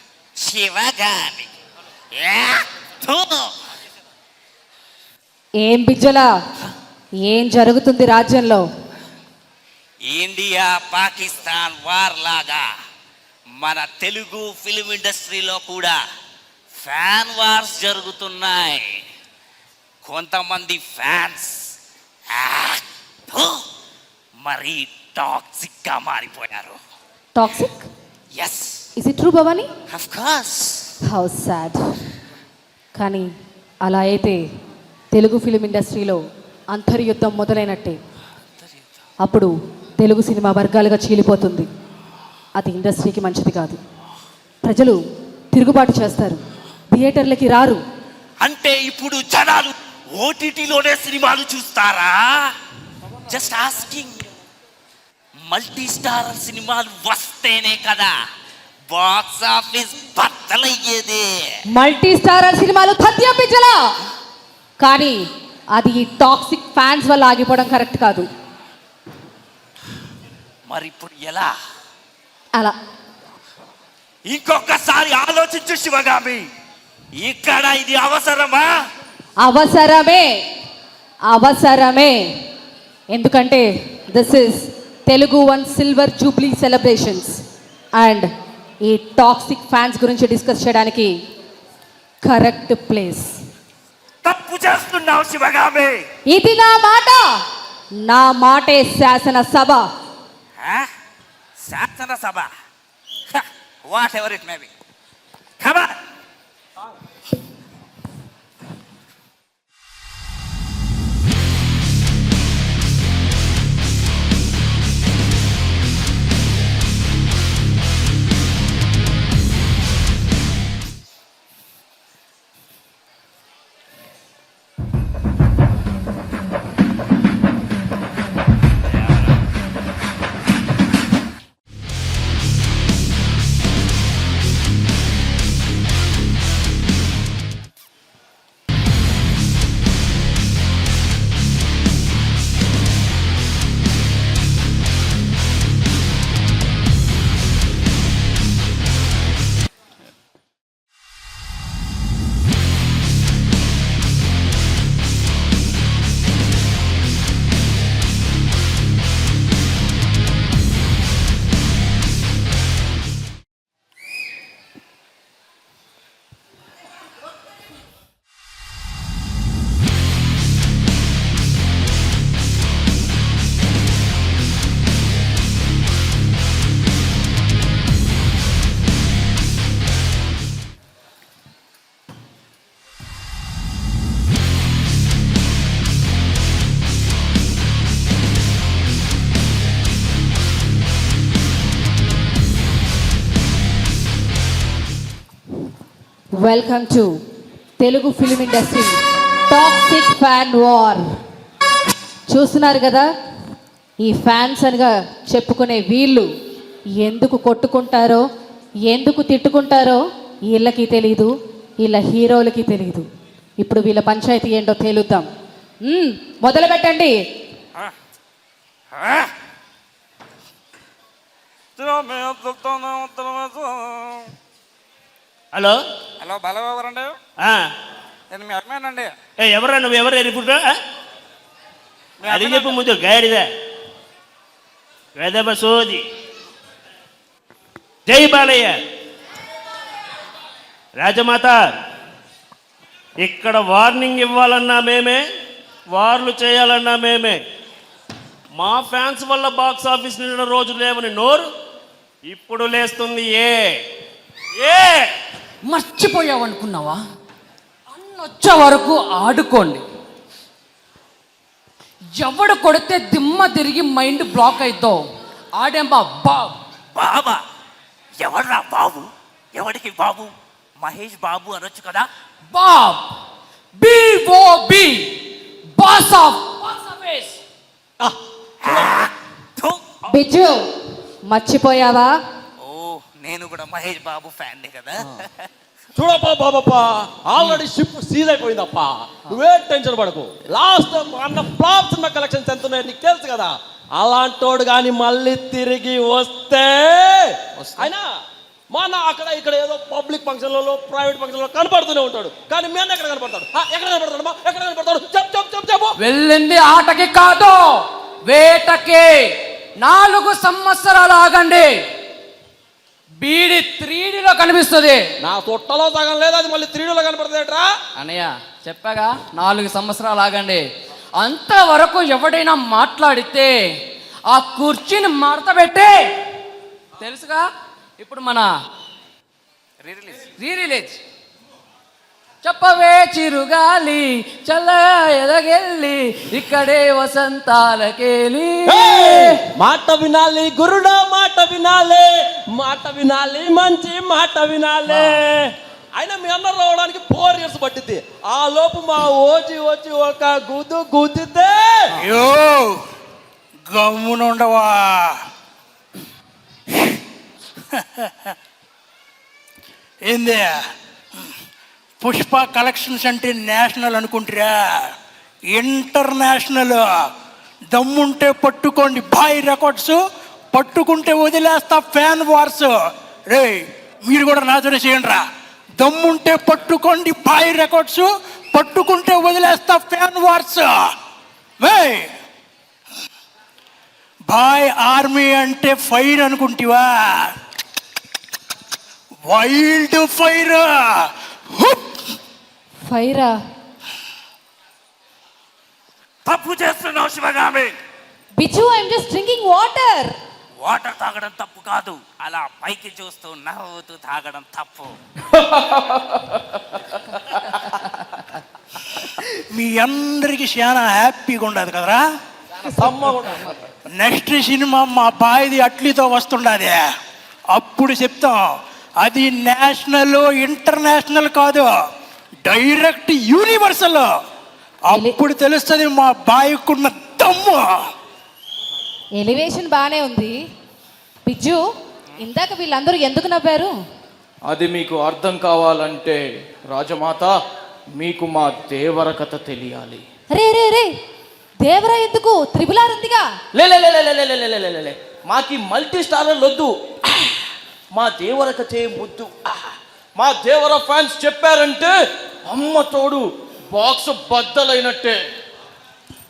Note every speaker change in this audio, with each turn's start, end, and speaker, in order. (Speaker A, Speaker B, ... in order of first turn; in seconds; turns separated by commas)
Speaker A: 0.4-1.5, Speaker A: 2.1-3.5, Speaker B: 5.6-6.3, Speaker B: 7.3-8.6, Speaker A: 10.1-12.6, Speaker A: 13.6-16.0, Speaker A: 16.8-18.9, Speaker A: 20.0-21.7, Speaker A: 22.3-23.5, Speaker A: 24.4-26.8, Speaker B: 27.3-27.9, Speaker A: 28.3-28.8, Speaker B: 29.0-29.7, Speaker A: 29.9-30.9, Speaker B: 31.1-31.8, Speaker B: 33.0-33.3, Speaker B: 33.9-34.4, Speaker B: 35.1-36.2, Speaker B: 36.7-38.0, Speaker B: 39.2-41.7, Speaker B: 42.6-43.8, Speaker B: 44.6-45.0, Speaker B: 45.5-46.4, Speaker B: 46.9-47.8, Speaker A: 48.4-52.1, Speaker A: 53.3-54.2, Speaker A: 55.5-58.1, Speaker A: 58.9-61.3, Speaker B: 61.7-63.9, Speaker B: 64.8-68.3, Speaker A: 70.7-71.5, Speaker A: 74.2-76.5, Speaker A: 77.1-78.7, Speaker B: 79.4-80.3, Speaker B: 81.3-82.3, Speaker B: 83.1-87.4, Speaker B: 88.0-88.3, Speaker B: 88.8-91.1, Speaker B: 92.2-93.3, Speaker A: 94.2-96.0, Speaker B: 96.3-97.4, Speaker B: 98.0-99.8, Speaker A: 100.6-100.8, Speaker A: 101.6-102.5, Speaker A: 103.3-104.7, Speaker A: 105.6-105.9, Speaker B: 196.4-197.1, Speaker B: 197.8-201.1, Speaker B: 202.3-203.1, Speaker B: 204.0-206.3, Speaker B: 207.0-208.2, Speaker B: 208.9-213.1, Speaker B: 213.6-215.3, Speaker B: 215.8-217.1, Speaker C: 221.8-224.2, Speaker C: 226.2-227.1, Speaker D: 227.4-227.7, Speaker C: 228.3-229.1, Speaker D: 229.4-230.7, Speaker C: 232.2-232.7, Speaker D: 232.3-233.5, Speaker D: 235.2-236.0, Speaker D: 238.1-238.8, Speaker D: 240.9-241.7, Speaker D: 243.2-245.2, Speaker D: 245.9-247.4, Speaker D: 248.5-251.5, Speaker D: 252.3-253.8, Speaker D: 254.6-255.1, Speaker E: 255.6-257.0, Speaker E: 257.9-259.8, Speaker E: 262.1-265.0, Speaker E: 265.6-266.6, Speaker A: 266.9-267.4, Speaker A: 268.2-272.1, Speaker E: 272.5-273.0, Speaker E: 273.8-275.1, Speaker E: 275.8-277.4, Speaker A: 278.6-280.0, Speaker B: 280.1-280.6, Speaker B: 281.3-282.1, Speaker A: 282.6-285.3, Speaker F: 286.0-298.0, Speaker F: 298.7-305.9, Speaker E: 306.0-311.8, Speaker E: 313.2-315.0, Speaker F: 315.2-317.7, Speaker E: 317.9-320.6, Speaker E: 321.2-323.5, Speaker E: 324.3-326.1, Speaker E: 327.0-327.4, Speaker E: 328.0-328.5, Speaker E: 330.2-331.0, Speaker E: 332.4-339.4, Speaker F: 338.7-351.8, Speaker G: 351.9-352.8, Speaker G: 353.7-355.2, Speaker G: 356.7-357.0, Speaker G: 357.7-358.4, Speaker G: 360.0-360.6, Speaker G: 362.0-364.9, Speaker G: 365.5-367.1, Speaker G: 367.7-370.0, Speaker G: 370.5-372.7, Speaker G: 373.3-375.2, Speaker G: 375.8-380.8, Speaker G: 381.6-382.1, Speaker G: 384.3-387.3, Speaker G: 389.3-391.8, Speaker B: 392.8-393.3, Speaker A: 396.2-397.7, Speaker B: 398.4-400.1, Speaker A: 400.6-404.9, Speaker H: 405.3-406.6, Speaker G: 409.5-412.0, Speaker H: 412.7-413.6, Speaker G: 413.9-416.8, Speaker G: 417.5-421.7, Speaker G: 422.4-424.1, Speaker G: 424.9-427.8, Speaker B: 424.9-425.1, Speaker B: 429.2-430.4, Speaker B: 431.2-431.6, Speaker B: 432.2-433.7, Speaker H: 434.5-436.2, Speaker H: 436.7-437.3, Speaker H: 438.0-440.0, Speaker B: 440.3-440.9, Speaker B: 441.6-443.2, Speaker H: 443.5-447.3, Speaker H: 447.9-449.6, Speaker H: 450.2-451.9, Speaker H: 452.5-455.2